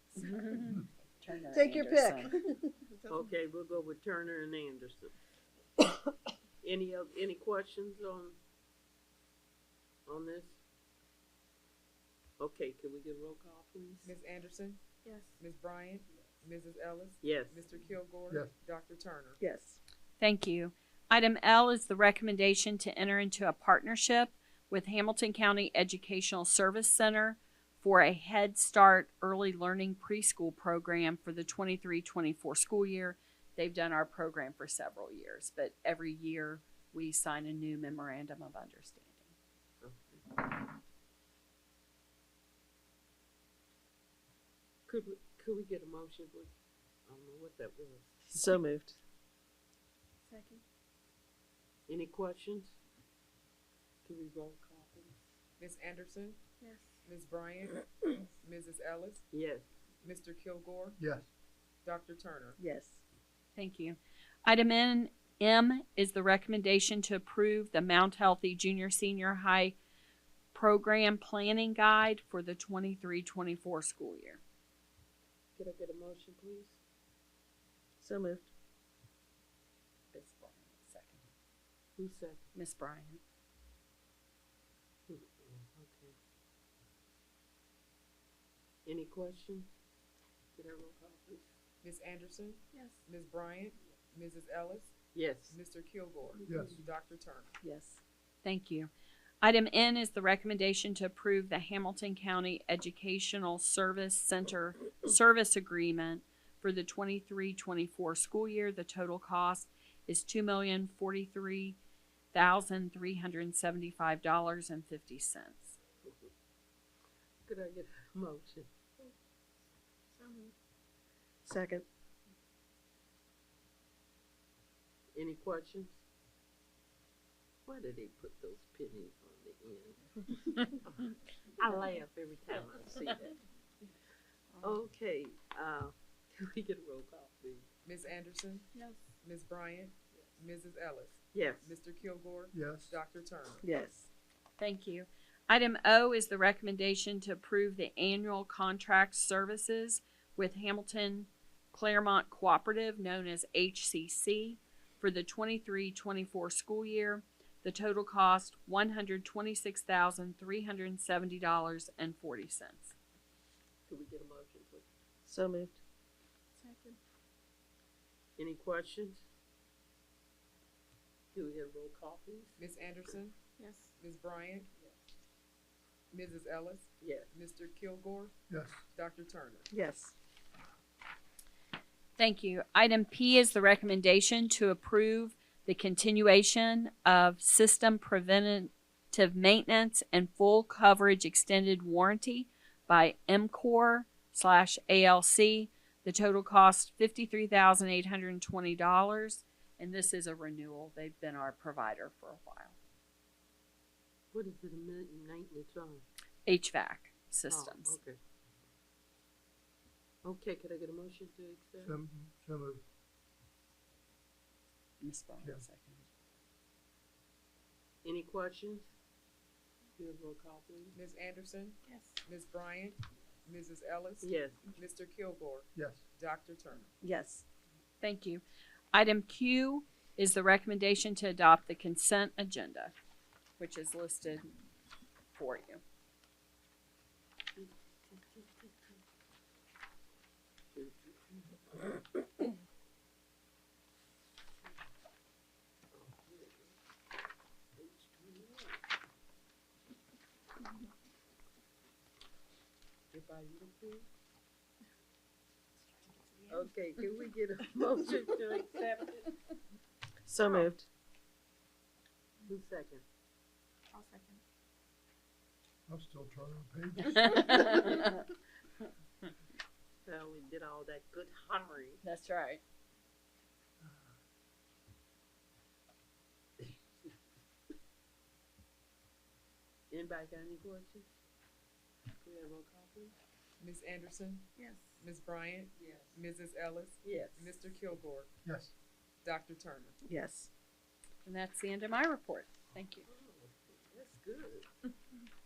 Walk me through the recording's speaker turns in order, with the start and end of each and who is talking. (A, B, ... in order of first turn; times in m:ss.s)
0:00.2-0:02.4 A
0:01.5-0:02.7 B
0:02.9-0:03.3 C
0:03.1-0:05.1 D
0:06.6-0:08.4 D
0:10.1-0:10.6 D
0:12.4-0:14.1 D
0:14.0-0:14.8 E
0:15.0-0:15.4 C
0:15.4-0:19.4 E
0:17.2-0:17.7 D
0:18.3-0:18.5 F
0:19.4-0:19.8 B
0:20.2-0:39.3 A
0:39.8-0:40.4 D
0:44.9-0:46.5 D
0:47.1-0:48.2 D
0:48.3-0:49.0 B
0:50.3-0:50.6 C
0:51.9-0:52.8 D
0:54.0-0:55.2 D
0:55.6-0:56.4 E
0:56.6-0:57.0 C
0:57.0-0:59.2 E
0:59.3-0:59.7 D
1:00.0-1:01.0 E
1:01.0-1:01.3 F
1:01.8-1:02.6 E
1:02.6-1:03.0 B
1:03.6-1:09.8 A
1:10.5-1:14.4 A
1:15.6-1:16.8 D
1:18.0-1:18.5 B
1:20.1-1:21.3 A
1:22.0-1:22.4 D
1:22.6-1:23.2 A
1:25.1-1:26.1 D
1:28.9-1:29.7 D
1:30.6-1:31.4 D
1:31.8-1:34.9 E
1:32.7-1:33.0 C
1:35.1-1:35.6 D
1:35.5-1:37.5 E
1:36.4-1:36.9 F
1:37.6-1:38.9 A
1:39.4-1:51.8 A
1:52.3-1:55.8 A
1:57.4-1:58.7 D
2:00.2-2:00.5 C
2:01.4-2:01.9 B
2:05.2-2:06.0 D
2:07.7-2:10.9 D
2:11.6-2:13.4 D
2:14.6-2:17.7 D
2:17.8-2:18.7 E
2:18.7-2:19.0 C
2:19.2-2:23.6 E
2:21.3-2:21.8 D
2:22.5-2:23.0 F
2:23.6-2:24.1 B
2:24.6-2:42.9 A
2:43.9-2:44.9 D
2:45.3-2:45.8 B
2:46.6-2:47.0 C
2:48.4-2:49.2 D
2:51.3-2:52.7 D
2:52.6-2:53.4 E
2:53.6-2:53.9 C
2:54.0-2:54.7 E
2:56.1-2:58.3 E
2:57.0-2:57.3 D
2:58.5-2:58.8 F
2:58.9-2:59.7 E
2:59.7-3:00.2 B
3:02.2-3:22.8 A
3:24.3-3:26.0 D
3:26.5-3:28.0 A
3:27.5-3:28.2 D
3:30.2-3:31.9 D
3:31.8-3:32.8 F
3:35.0-3:36.1 A
3:38.0-3:38.9 D
3:40.0-3:40.9 D
3:40.9-3:46.9 E
3:41.9-3:42.2 C
3:44.2-3:44.6 D
3:45.8-3:46.0 F
3:47.0-3:47.4 B
3:48.0-3:48.4 A
3:48.9-3:52.9 A
3:53.6-3:54.6 A
3:55.3-3:55.8 A
3:57.6-3:58.8 D
4:00.7-4:01.8 D
4:05.9-4:06.8 D
4:07.8-4:08.8 D
4:13.1-4:14.1 D
4:16.0-4:16.7 C
4:16.5-4:19.4 D
4:20.3-4:20.9 B
4:22.5-4:23.0 D
4:23.9-4:24.4 C
4:25.9-4:27.7 F
4:27.1-4:28.2 A
4:30.0-4:32.0 D
4:32.0-4:32.6 A
4:39.9-4:41.1 D
4:42.2-4:43.2 D
4:43.6-4:48.3 E
4:44.6-4:44.8 C
4:45.8-4:46.2 D
4:47.0-4:47.6 D
4:48.4-4:48.7 F
4:49.2-4:50.0 E
4:50.0-4:50.5 B
4:51.2-4:53.1 A
4:53.1-4:54.7 D